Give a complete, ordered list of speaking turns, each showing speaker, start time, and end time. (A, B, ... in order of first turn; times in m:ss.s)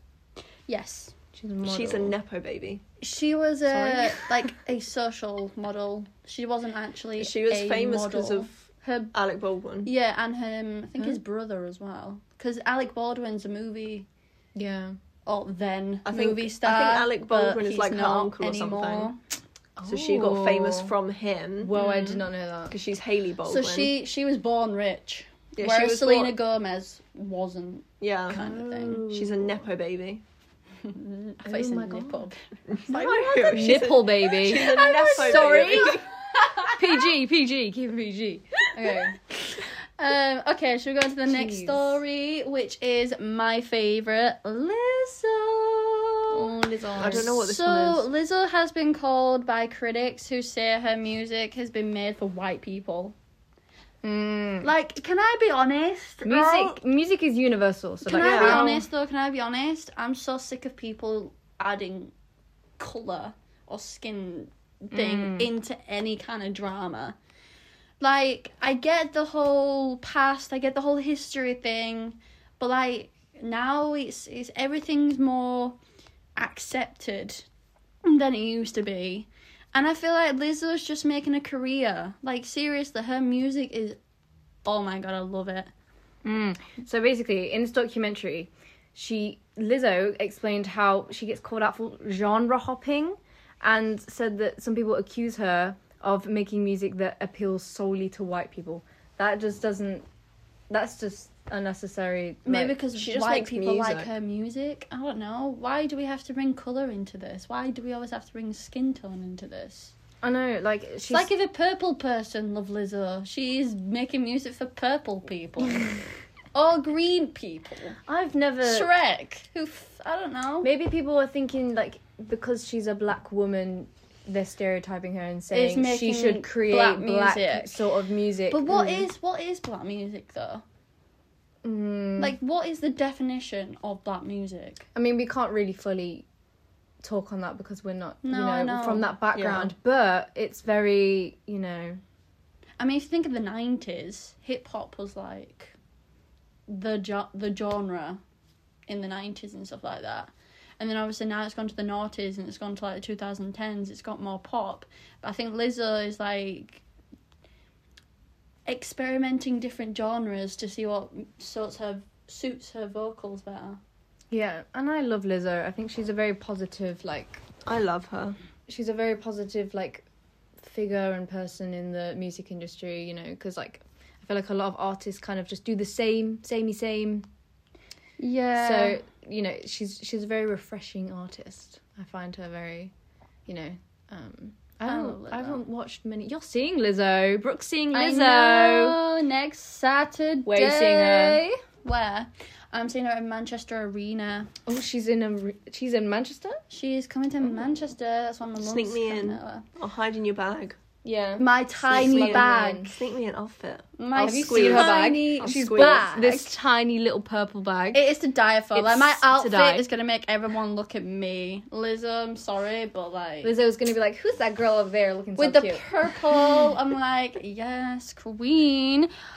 0:00.7-0:01.1 A
0:01.3-0:02.2 B
0:01.6-0:02.8 C
0:03.0-0:09.1 A
0:03.8-0:04.2 C
0:07.2-0:08.5 C
0:09.1-0:09.9 C
0:09.8-0:14.1 A
0:14.5-0:15.0 B
0:15.2-0:19.2 A
0:16.0-0:19.1 C
0:19.8-0:20.9 B
0:19.8-0:21.7 C
0:21.6-0:22.7 B
0:21.7-0:22.2 A
0:22.7-0:23.9 C
0:23.4-0:29.0 A
0:25.5-0:26.4 C
0:28.0-0:28.4 C
0:28.3-0:29.6 B
0:29.1-0:30.2 C
0:30.8-0:37.1 A
0:31.4-0:32.2 B
0:32.7-0:36.1 C
0:33.5-0:36.0 B
0:36.7-0:39.2 B
0:38.8-0:53.1 A
0:41.3-0:42.0 B
0:46.3-0:47.3 B
0:47.0-0:48.1 C
0:54.0-0:54.7 B
0:54.6-0:56.8 A
0:56.2-0:58.9 B
0:58.0-1:02.1 A
0:58.1-0:58.8 C
1:02.8-1:07.2 A
1:04.9-1:05.5 B
1:08.0-1:15.8 A
1:16.4-1:17.4 A
1:18.0-1:24.0 A
1:24.6-1:25.7 A
1:26.2-1:40.0 B
1:40.7-1:42.8 B
1:42.4-1:49.9 A
1:42.9-1:44.1 C
1:50.2-1:51.3 B
1:51.1-1:58.0 A
1:58.0-1:58.9 B
1:58.6-2:00.7 A
2:00.6-2:09.1 B
2:05.5-2:07.8 A
2:08.5-2:10.6 A
2:11.6-2:12.3 B
2:12.2-2:14.8 A
2:14.9-2:16.2 B
2:17.0-2:22.0 B
2:18.2-2:19.1 A
2:19.3-2:19.7 C
2:22.8-2:25.7 A
2:26.7-2:28.2 A
2:28.9-2:36.8 A
2:38.6-2:43.8 A
2:44.3-2:47.4 B
2:47.6-2:48.4 C
2:48.7-2:50.0 B
2:50.6-2:57.2 B
2:58.2-2:59.0 A
2:58.6-3:02.9 B
3:03.5-3:09.0 B
3:04.8-3:05.6 A
3:07.9-3:14.5 A
3:10.4-3:11.5 B
3:14.6-3:16.6 B
3:16.7-3:19.6 A
3:18.6-3:20.8 C
3:21.0-3:22.9 B
3:21.4-3:23.0 A
3:21.8-3:26.1 C
3:24.0-3:26.6 A
3:24.2-3:28.0 B
3:27.9-3:33.5 A
3:28.7-3:29.9 B
3:33.4-3:36.6 B
3:35.4-3:39.1 A